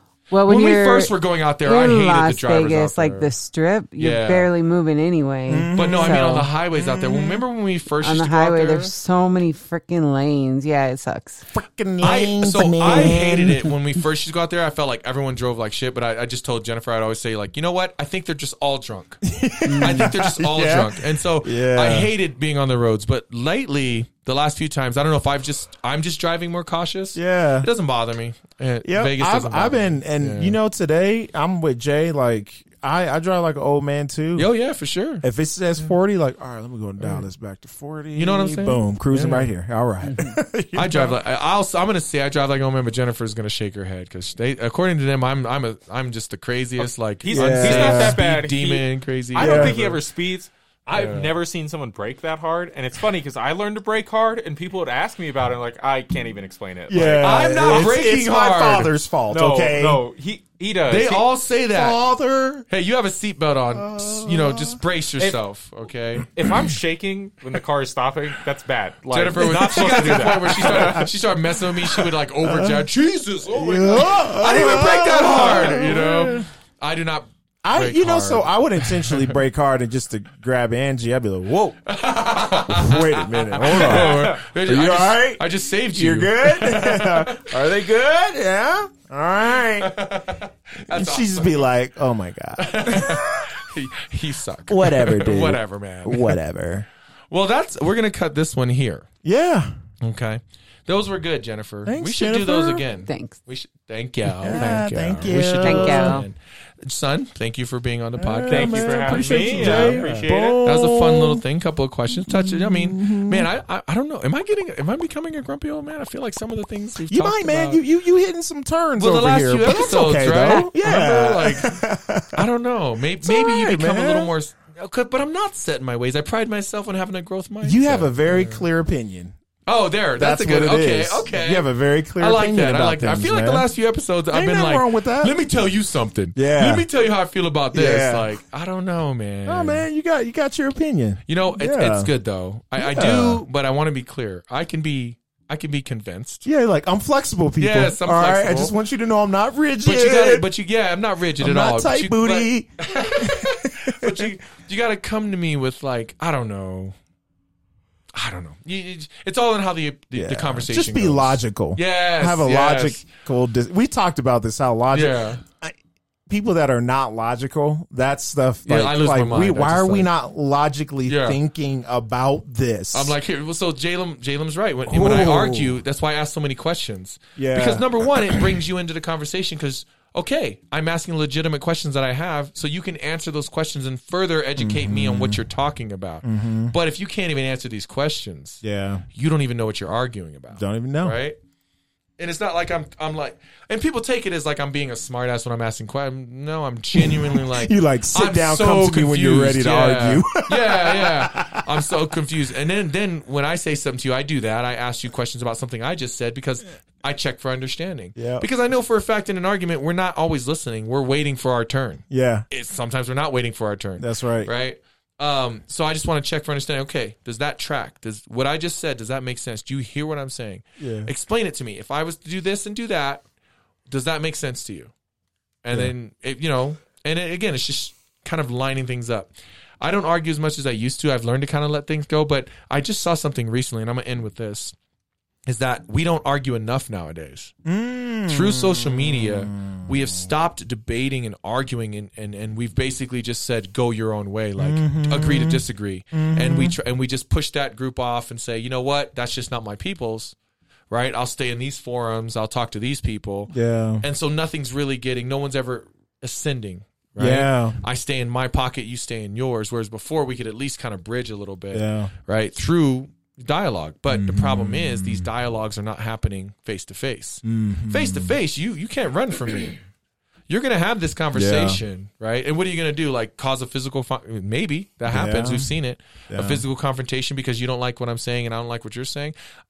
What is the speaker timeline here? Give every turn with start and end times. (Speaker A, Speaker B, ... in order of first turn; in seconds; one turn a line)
Speaker A: 0.3-6.5
Speaker B: 0.4-3.3
Speaker B: 4.0-4.5
Speaker C: 5.5-7.4
Speaker B: 5.7-8.9
Speaker A: 8.0-11.4
Speaker C: 11.5-13.7
Speaker B: 12.0-19.2
Speaker C: 19.2-22.1
Speaker A: 19.6-20.1
Speaker B: 19.8-30.6
Speaker C: 27.1-27.7
Speaker C: 28.8-34.5
Speaker B: 34.4-35.2
Speaker C: 35.2-41.2
Speaker B: 37.0-37.2
Speaker B: 38.2-39.5
Speaker A: 40.0-40.4
Speaker B: 40.7-50.0
Speaker D: 46.8-57.5
Speaker C: 47.3-48.2
Speaker C: 49.4-49.8
Speaker B: 50.9-51.3
Speaker C: 56.9-60.0
Speaker B: 57.2-58.9
Speaker D: 59.3-61.3
Speaker B: 60.9-62.0
Speaker C: 61.7-62.7
Speaker B: 62.7-66.3
Speaker C: 63.7-64.8
Speaker D: 66.3-71.1
Speaker C: 66.4-66.7
Speaker B: 69.1-79.4
Speaker C: 70.6-71.1
Speaker C: 72.1-72.9
Speaker C: 73.5-76.5
Speaker C: 77.6-81.8
Speaker B: 81.9-87.6
Speaker C: 82.4-90.0
Speaker D: 83.7-84.4
Speaker B: 89.8-91.7
Speaker C: 90.9-93.5
Speaker B: 92.6-96.4
Speaker C: 94.7-96.9
Speaker B: 97.3-99.1
Speaker C: 99.2-99.8
Speaker B: 100.0-110.1
Speaker C: 101.8-102.8
Speaker A: 103.1-103.4
Speaker C: 104.4-106.2
Speaker A: 104.5-104.9
Speaker A: 105.6-106.3
Speaker C: 108.2-111.4
Speaker D: 108.5-110.6
Speaker B: 110.6-117.8
Speaker C: 112.2-113.5
Speaker C: 117.1-122.4
Speaker B: 119.0-121.8
Speaker B: 122.3-128.6
Speaker C: 123.2-124.3
Speaker C: 127.6-129.3
Speaker B: 129.7-139.9
Speaker C: 130.2-133.7
Speaker C: 134.3-135.3
Speaker C: 136.3-136.9
Speaker C: 137.7-138.3
Speaker C: 139.4-142.1
Speaker B: 141.3-146.4
Speaker C: 142.8-143.4
Speaker C: 146.4-150.4
Speaker B: 147.6-148.7
Speaker B: 149.8-156.9
Speaker C: 151.4-154.3
Speaker B: 158.1-163.1
Speaker C: 160.1-165.7
Speaker B: 164.9-165.4
Speaker C: 166.3-173.2
Speaker B: 168.7-170.1
Speaker B: 171.1-171.4
Speaker B: 172.9-188.6
Speaker C: 174.9-175.8
Speaker C: 177.4-178.5
Speaker C: 184.6-185.4
Speaker C: 186.2-186.7
Speaker C: 188.6-189.1
Speaker B: 189.1-191.4
Speaker C: 190.5-191.2
Speaker B: 192.2-223.2
Speaker C: 196.9-201.7
Speaker C: 208.2-208.4
Speaker C: 212.1-212.4
Speaker C: 214.0-214.5
Speaker C: 220.8-221.1
Speaker B: 223.9-224.9
Speaker B: 225.6-234.7
Speaker B: 235.4-237.5
Speaker C: 237.6-240.3
Speaker B: 238.3-250.3
Speaker C: 244.6-246.8
Speaker B: 250.9-269.8
Speaker C: 253.5-254.1
Speaker C: 257.2-257.8
Speaker C: 261.7-262.1
Speaker C: 264.1-265.3
Speaker C: 267.4-268.4
Speaker B: 270.5-279.3
Speaker C: 271.3-271.8
Speaker C: 275.1-275.7
Speaker C: 276.3-276.6